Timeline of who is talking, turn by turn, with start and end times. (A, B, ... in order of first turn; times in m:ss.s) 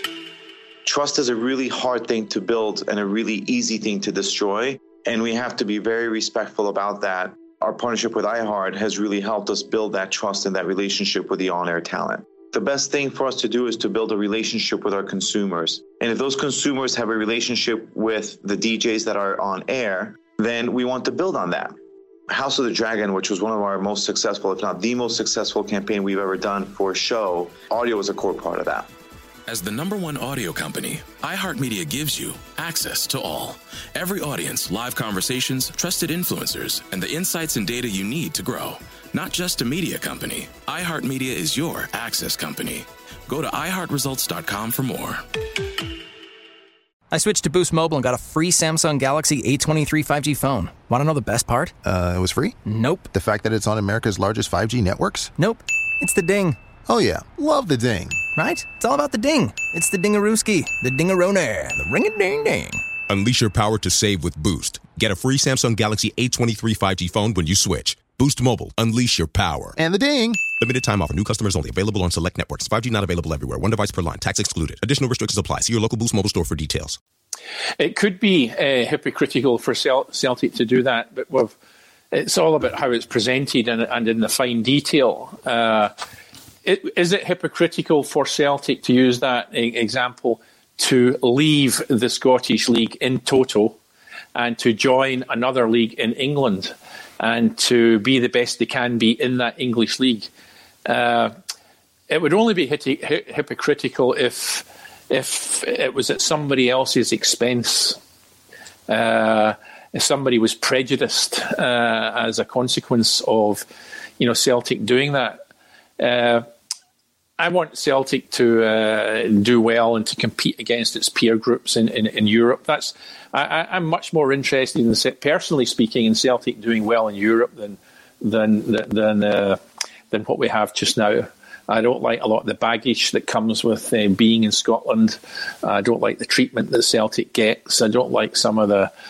0:00.8-0:21.8 A
0:22.3-0:28.9 A
0:29.5-0:45.2 B
0:47.1-0:51.7 C
0:51.8-0:52.6 D
0:52.6-0:53.1 C
0:53.1-0:55.3 D
0:55.4-0:56.6 C
0:56.8-0:58.2 D
0:58.4-1:02.8 C
1:03.1-1:09.8 E
1:09.8-1:10.5 D
1:10.5-1:17.0 E
1:17.8-1:21.5 F
1:22.1-1:25.9 F
1:26.6-1:33.8 F
1:34.4-1:40.3 F
1:40.8-1:41.3 F
1:42.1-1:48.0 F
1:48.9-1:53.6 F
1:54.2-1:55.4 F
1:56.0-1:56.5 F
1:57.4-2:18.9 F